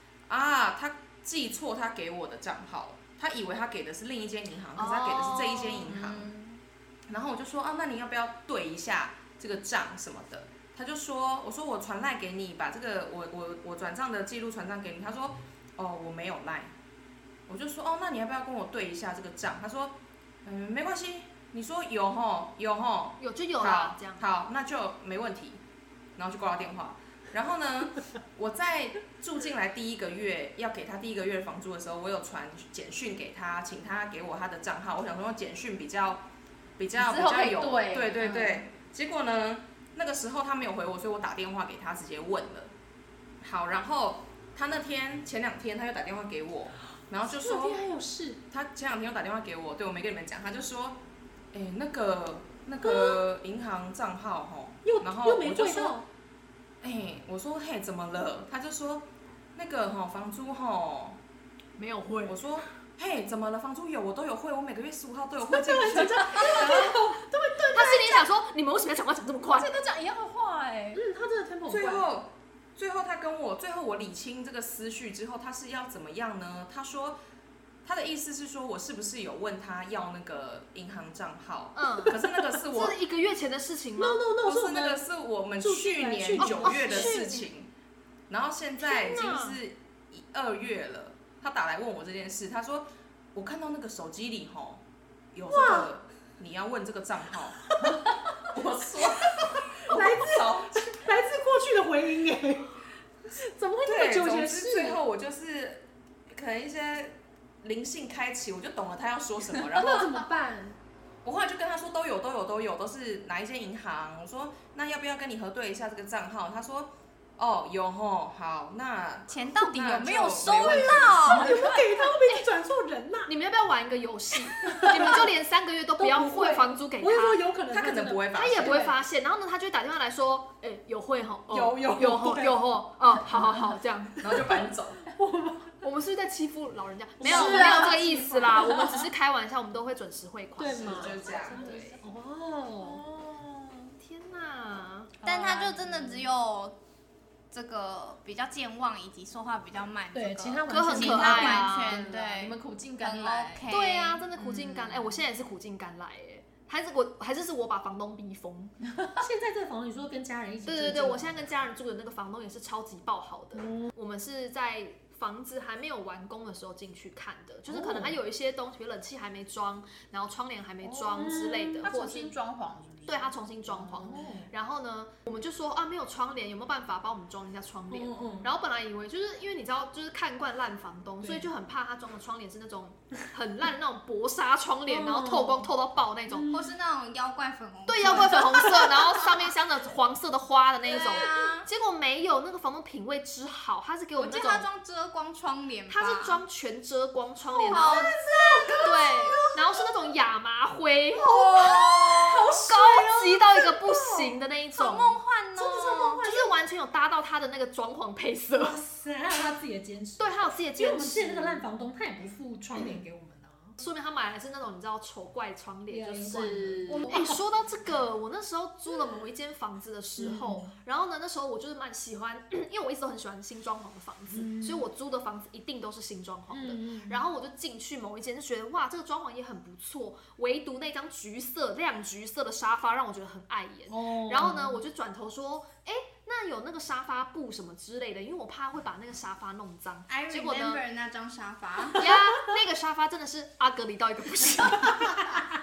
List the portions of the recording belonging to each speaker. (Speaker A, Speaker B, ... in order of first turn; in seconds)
Speaker A: 0.3-6.4, 7.1-16.7, 17.5-25.6, 26.2-36.3, 36.8-42.7, 43.4-47.8, 48.5-51.0, 51.5-56.0, 56.8-61.2, 62.2-67.1, 71.7-77.2, 77.8-83.0, 84.3-87.7, 88.3-97.7, 98.3-101.0, 103.8-110.2, 111.2-121.5, 127.7-128.9, 131.5-132.6, 134.2-135.1, 137.4-137.9, 140.8-141.6
Speaker B: 4.8-5.6, 23.2-24.3, 61.8-62.4, 66.3-67.0, 67.7-69.8, 81.8-82.2, 82.7-84.2, 86.4-87.5, 88.8-89.6, 120.5-120.9, 121.8-122.5, 123.3-127.5, 128.3-134.4, 135.8-142.0, 144.0-145.1, 150.7-152.0, 153.7-158.8, 160.7-172.3, 173.1-186.5, 187.9-194.7, 195.9-198.1, 198.8-201.7, 202.3-205.2, 206.2-208.8, 210.2-211.6, 213.8-240.8, 241.9-245.3
Speaker C: 5.7-6.6, 37.0-38.6, 67.3-68.3, 69.5-71.0, 137.3-138.5, 143.1-143.9, 145.3-145.7, 151.5-153.7, 154.3-155.2, 170.8-171.3, 171.8-174.4, 197.6-199.8, 201.2-202.5, 216.3-217.4
Speaker D: 47.3-48.4, 52.8-53.2, 54.9-56.1, 65.5-67.2, 70.9-72.1, 82.1-82.5, 84.0-85.0, 85.6-87.2, 95.5-95.9, 99.9-102.8, 103.3-105.0, 109.7-110.8, 121.2-123.3, 124.7-125.3, 126.0-129.0, 135.1-135.8, 137.2-138.8, 140.6-143.0, 150.1-151.7, 159.2-161.6, 163.6-163.9, 167.7-168.2, 171.0-171.9, 174.1-174.5, 177.9-178.5, 181.2-181.5, 184.9-185.7, 186.3-186.7, 188.1-188.8, 205.6-206.6, 208.6-213.8, 215.9-217.3, 220.2-220.8, 224.3-224.9, 226.5-227.2, 233.9-234.8
Speaker E: 119.3-121.7, 137.3-137.7, 145.2-146.8, 147.5-154.2, 186.5-188.8, 190.9-191.7, 194.2-196.4, 197.7-199.1, 201.2-206.2, 240.1-242.1